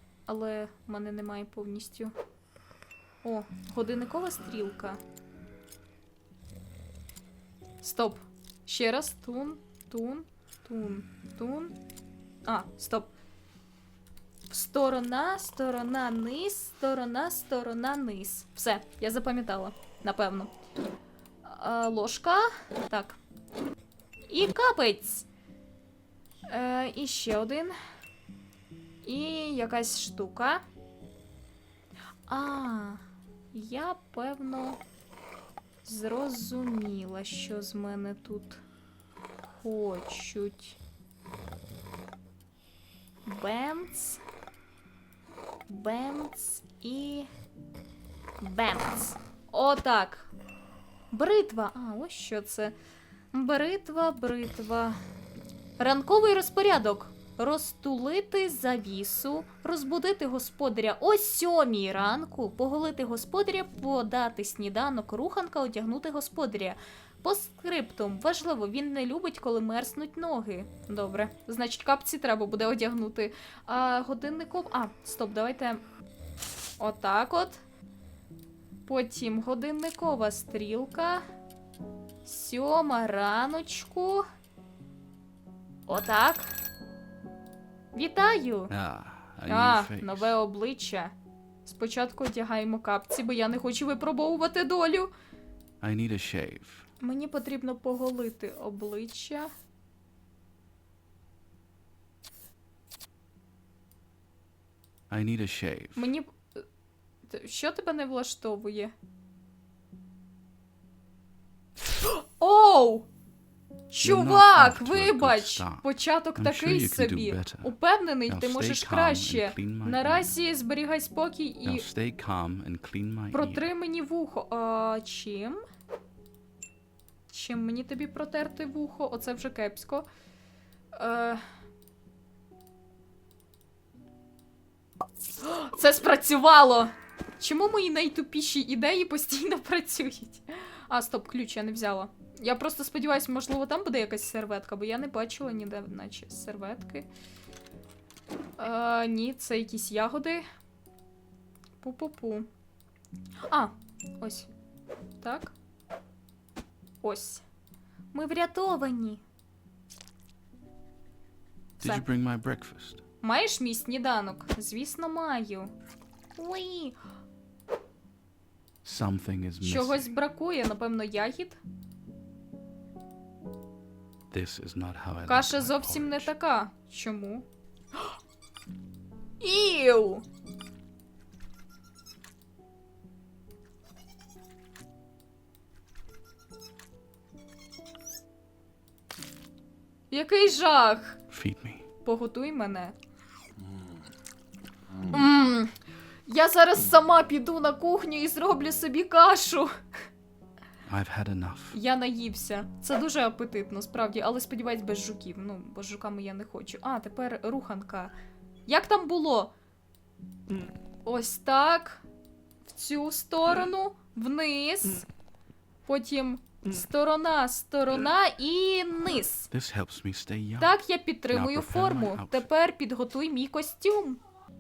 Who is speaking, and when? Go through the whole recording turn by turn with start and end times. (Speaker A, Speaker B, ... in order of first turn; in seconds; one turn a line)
Speaker A: 0.3-2.1
Speaker A: 3.2-5.0
Speaker A: 7.8-11.8
Speaker A: 12.5-13.1
Speaker A: 14.5-20.5
Speaker A: 21.4-23.2
Speaker A: 24.3-25.3
Speaker A: 26.5-27.8
Speaker A: 29.0-30.6
Speaker A: 32.3-33.0
Speaker A: 33.5-34.8
Speaker A: 35.9-38.6
Speaker A: 39.4-40.8
Speaker A: 43.3-44.2
Speaker A: 45.7-47.3
Speaker A: 48.4-50.3
Speaker A: 51.1-52.7
Speaker A: 53.3-55.0
Speaker A: 55.8-75.8
Speaker A: 76.8-77.6
Speaker A: 78.9-81.2
Speaker A: 82.2-84.2
Speaker A: 85.9-86.5
Speaker A: 87.9-88.7
Speaker B: 88.7-90.4
Speaker A: 89.5-91.1
Speaker A: 91.7-95.1
Speaker B: 95.8-96.9
Speaker A: 97.0-99.5
Speaker B: 105.1-106.1
Speaker A: 106.0-106.6
Speaker A: 107.3-108.9
Speaker A: 111.9-113.1
Speaker A: 113.9-121.9
Speaker B: 114.0-117.8
Speaker B: 118.3-120.3
Speaker B: 121.6-123.7
Speaker A: 123.3-125.6
Speaker A: 127.3-130.1
Speaker A: 130.9-131.4
Speaker A: 135.4-147.1
Speaker A: 148.6-150.4
Speaker A: 151.8-152.5
Speaker A: 153.5-154.5
Speaker A: 155.2-155.5
Speaker A: 157.0-157.4
Speaker A: 158.1-159.2
Speaker A: 161.8-162.1
Speaker B: 161.8-163.0
Speaker A: 163.2-165.7
Speaker A: 166.4-167.0
Speaker B: 168.8-170.1
Speaker A: 169.6-171.6
Speaker B: 174.3-176.3
Speaker A: 175.2-177.4
Speaker A: 179.4-180.2
Speaker A: 190.1-191.2
Speaker B: 191.3-191.8
Speaker A: 192.0-192.9
Speaker A: 195.1-195.7
Speaker A: 196.3-199.7
Speaker B: 200.9-201.8
Speaker A: 201.7-208.1
Speaker A: 208.7-209.5
Speaker A: 211.1-212.0
Speaker A: 212.7-215.1
Speaker A: 215.9-219.5
Speaker B: 219.5-220.8
Speaker A: 220.6-224.2
Speaker B: 221.3-222.5